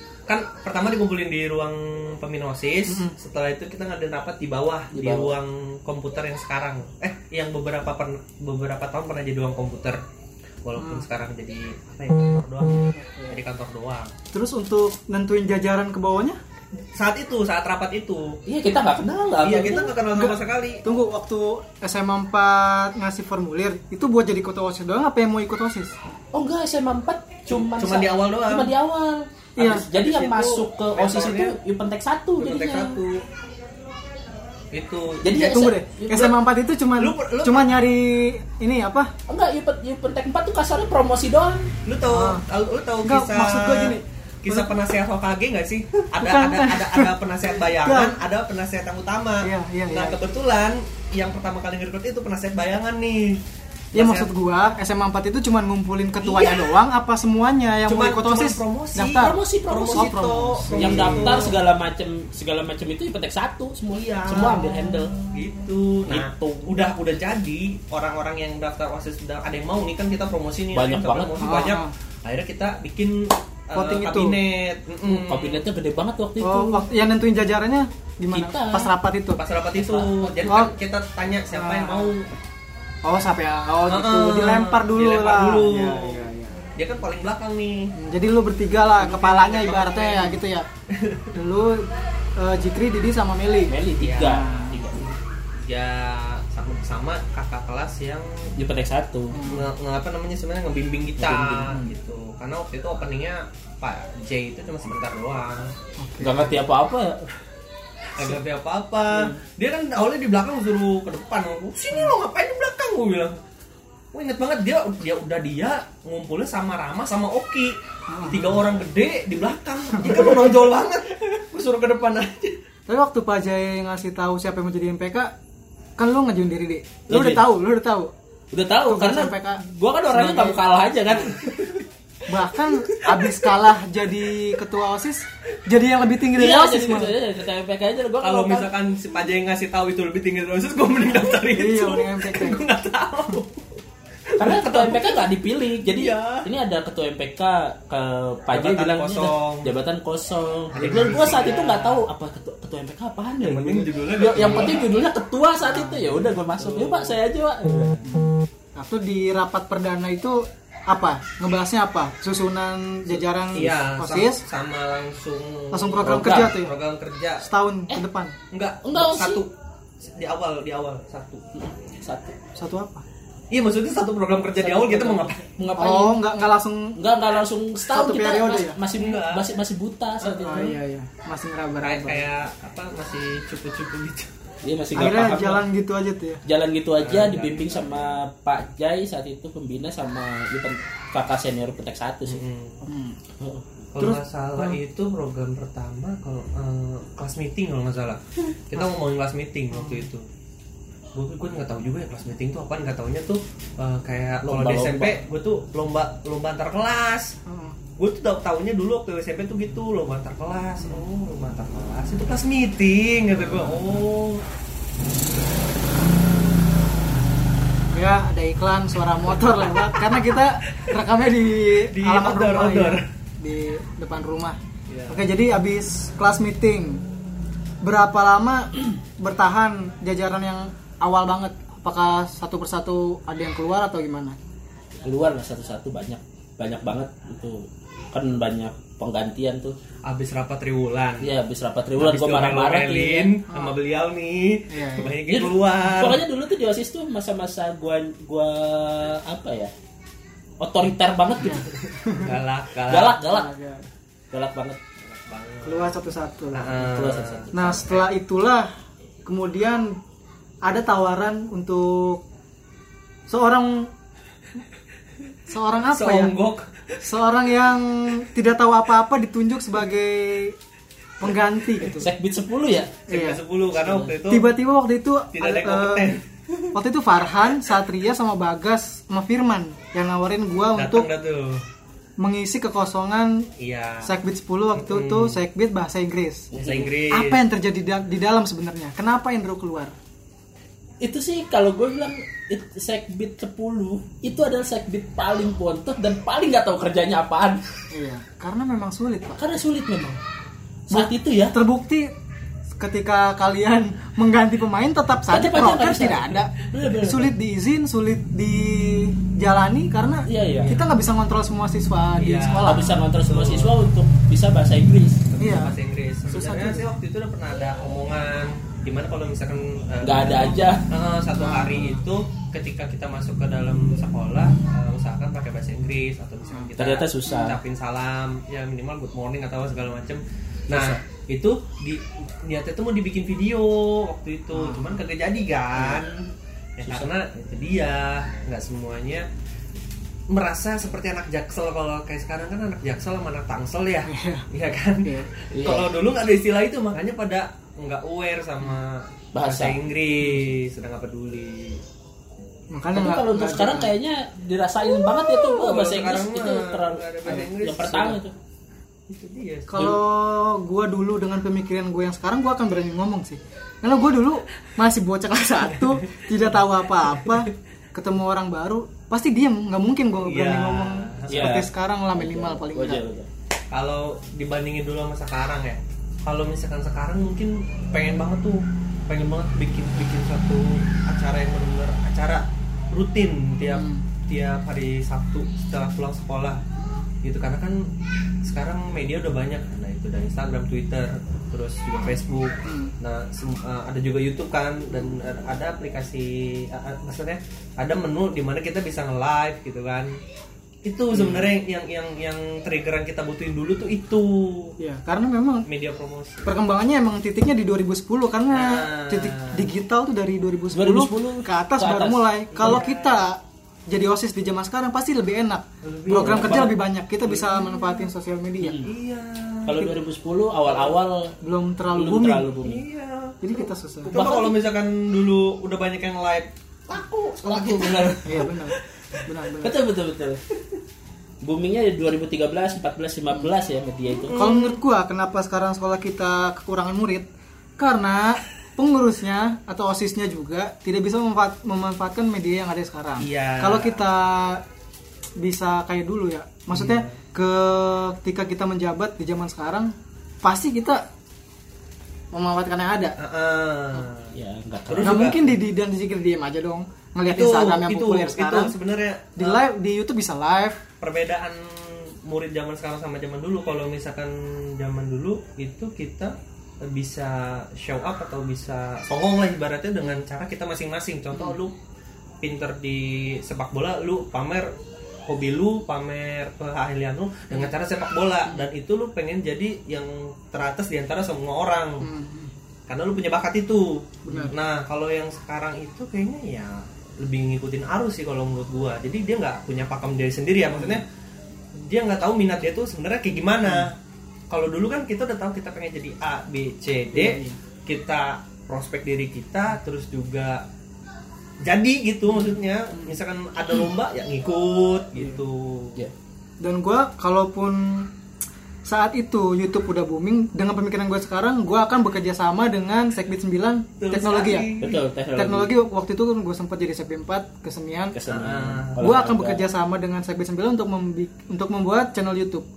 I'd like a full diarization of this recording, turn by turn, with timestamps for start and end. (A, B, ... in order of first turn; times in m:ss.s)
0:00.3-0:10.0 A
0:02.9-0:03.1 B
0:04.9-0:05.3 C
0:10.6-0:14.1 A
0:10.8-0:11.0 B
0:12.9-0:13.4 B
0:14.3-0:16.4 B
0:16.9-0:18.4 A
0:18.5-0:19.9 C
0:19.4-0:20.8 A
0:20.1-0:25.9 B
0:26.3-0:32.9 C
0:27.5-0:28.7 A
0:29.6-0:29.8 B
0:29.6-0:31.6 A
0:32.4-0:33.2 A
0:34.7-0:35.3 A
0:35.2-0:36.3 C
0:35.3-0:39.1 B
0:37.0-0:37.8 A
0:39.3-0:41.7 C
0:41.8-0:54.3 A
0:42.1-0:42.4 B
0:43.0-0:44.7 B
0:46.2-0:47.1 B
0:47.7-0:48.2 B
0:49.4-0:50.2 B
0:53.9-0:59.4 B
0:56.2-0:56.8 A
0:57.9-1:01.6 A
0:59.1-1:00.1 C
0:59.9-1:01.5 B
1:00.7-1:05.1 C
1:03.9-1:15.6 A
1:06.1-1:06.6 C
1:10.7-1:11.6 C
1:11.4-1:11.9 B
1:13.8-1:14.4 B
1:15.1-1:16.8 C
1:16.4-1:19.4 B
1:18.3-1:18.9 C
1:19.3-1:22.2 A
1:19.8-1:20.7 C
1:20.5-1:20.8 B
1:21.5-1:22.1 B
1:23.0-1:26.6 B
1:23.9-1:27.9 A
1:28.0-1:30.7 B
1:28.9-1:31.4 A
1:31.3-1:34.8 B
1:33.6-1:35.1 C
1:34.0-1:34.4 A
1:35.6-1:38.5 A
1:38.6-1:39.4 C
1:39.3-1:39.7 B
1:39.4-1:45.7 A
1:41.2-1:41.8 C
1:46.0-1:46.6 B
1:46.2-1:47.3 C
1:48.2-1:53.4 A
1:54.1-2:02.6 A
1:58.1-1:58.6 B
2:02.9-2:05.3 B
2:06.0-2:08.1 B
2:07.1-2:07.4 C
2:08.5-2:11.8 C
2:08.9-2:10.6 B
2:12.3-2:17.1 B
2:16.3-2:18.7 C
2:18.2-2:25.2 A
2:21.4-2:22.6 B
2:24.4-2:38.1 C
2:25.8-2:26.5 A
2:28.5-2:29.7 A
2:30.7-2:32.0 A
2:33.4-2:34.9 A
2:35.6-2:36.0 B
2:36.5-2:37.1 A
2:38.0-2:44.4 B
2:43.5-2:47.5 A
2:45.7-2:46.8 B
2:46.0-2:46.5 C
2:47.4-2:48.3 B
2:48.5-2:51.4 A
2:48.8-2:49.4 C
2:51.5-2:52.4 C
2:52.6-2:53.0 B
2:53.5-2:55.4 A
2:54.6-2:56.2 C
2:55.8-2:57.0 B
2:57.0-3:00.8 C
2:57.9-2:58.8 B
2:58.9-2:59.4 A
3:00.4-3:02.2 B
3:01.8-3:04.4 A
3:04.6-3:05.6 C
3:04.9-3:06.4 B
3:06.4-3:12.4 C
3:07.0-3:08.2 A
3:12.2-3:12.8 A
3:12.8-3:13.2 B
3:13.9-3:20.3 A
3:19.8-3:20.0 B
3:21.1-3:27.4 A
3:24.4-3:25.2 C
3:27.4-3:27.8 B
3:28.0-3:34.4 A
3:37.9-3:44.6 B
3:39.8-3:41.0 A
3:41.7-3:43.0 A
3:44.9-3:45.2 A
3:45.1-3:47.0 B
3:47.8-3:54.4 B
3:55.0-3:59.8 C
4:00.0-4:01.3 A
4:01.2-4:03.4 C
4:01.9-4:06.2 A
4:03.5-4:03.7 B
4:04.7-4:05.2 B
4:05.3-4:09.7 C
4:10.6-4:11.7 C
4:11.4-4:12.3 B
4:12.2-4:13.2 A
4:12.9-4:13.5 C
4:13.2-4:13.9 B
4:14.3-4:14.8 C
4:15.0-4:16.0 A
4:15.6-4:16.7 B
4:16.5-4:18.0 A
4:16.8-4:18.0 C
4:17.5-4:18.7 B
4:19.2-4:20.0 B
4:20.6-4:22.2 B
4:23.3-4:23.9 B
4:25.5-4:26.3 B
4:25.9-4:27.0 A
4:27.0-4:30.6 B
4:31.2-4:32.1 B
4:31.8-4:33.0 C
4:33.1-4:34.5 A
4:33.1-4:33.4 B
4:33.8-4:34.1 C
4:34.3-4:36.2 B
4:35.3-4:36.5 A
4:36.7-4:41.1 B
4:40.8-4:41.6 A
4:42.2-4:43.5 B
4:43.6-4:44.1 A
4:44.0-4:46.5 B
4:44.8-4:45.4 A
4:46.5-4:46.9 C
4:46.6-4:47.4 A
4:47.1-4:49.9 B
4:51.0-4:57.6 C
4:57.9-4:59.4 B
4:59.4-5:00.2 C
5:00.9-5:01.6 C
5:00.9-5:02.1 B
5:02.8-5:13.0 B
5:05.3-5:07.3 C
5:10.3-5:10.8 C
5:12.2-5:13.8 A
5:12.6-5:15.2 C
5:15.3-5:36.1 A
5:15.4-5:15.8 B
5:16.3-5:16.9 B
5:20.0-5:20.9 C
5:21.4-5:22.0 B
5:26.8-5:27.6 C
5:30.7-5:31.0 C
5:34.5-5:34.9 B
5:35.8-5:36.2 C
5:36.8-5:39.3 A
5:36.8-5:37.1 C
5:40.3-5:51.8 A
5:44.1-5:44.5 B
5:45.0-5:45.3 B
5:45.5-5:45.9 C
5:49.3-5:49.8 C
5:52.7-5:53.9 B
5:52.9-5:58.3 C
5:55.3-5:58.2 A
5:59.1-6:00.0 A
5:59.7-6:13.0 B
6:05.8-6:06.2 A
6:10.2-6:11.5 A
6:11.3-6:13.3 C
6:13.7-6:26.6 A
6:23.6-6:24.0 B
6:27.2-6:27.9 A
6:28.4-6:40.1 A
6:32.6-6:32.9 B
6:40.8-6:44.8 A
6:44.8-6:45.7 B
6:45.6-6:46.5 A
6:46.4-6:58.8 B
6:48.5-6:49.7 A
6:50.7-6:52.7 C
6:52.5-6:53.2 A
6:55.8-6:58.1 A
6:56.1-6:56.8 C
6:58.6-6:58.9 C
6:58.8-6:59.8 A
6:59.6-7:01.3 C
7:01.4-7:02.6 B
7:01.9-7:02.8 C
7:02.6-7:08.3 A
7:03.4-7:04.2 B
7:04.1-7:04.5 C
7:07.4-7:08.5 C
7:08.2-7:09.8 B
7:09.6-7:10.4 C
7:11.4-7:14.4 C
7:14.1-7:14.8 A
7:14.3-7:17.3 B
7:17.8-7:24.6 B
7:23.2-7:24.0 A
7:25.4-7:31.0 B
7:26.7-7:27.1 A
7:32.3-7:33.2 B
7:33.2-7:34.3 A
7:34.3-7:35.4 C
7:34.9-7:35.6 A
7:35.0-7:38.8 B
7:37.3-7:39.6 A
7:39.4-7:40.8 B
7:41.0-7:51.8 A
7:52.4-7:54.7 A
7:55.2-8:02.1 A
8:02.0-8:02.5 B
8:02.9-8:11.0 A
8:04.2-8:04.5 B
8:11.7-8:14.0 A
8:14.5-8:20.6 A
8:17.1-8:17.6 B
8:21.6-8:26.0 A
8:26.6-8:28.1 B
8:28.8-8:34.8 B
8:34.0-8:35.0 A
8:34.8-8:35.7 C
8:35.4-8:38.2 B
8:38.1-8:39.6 C
8:38.3-8:39.0 A
8:39.0-8:42.6 B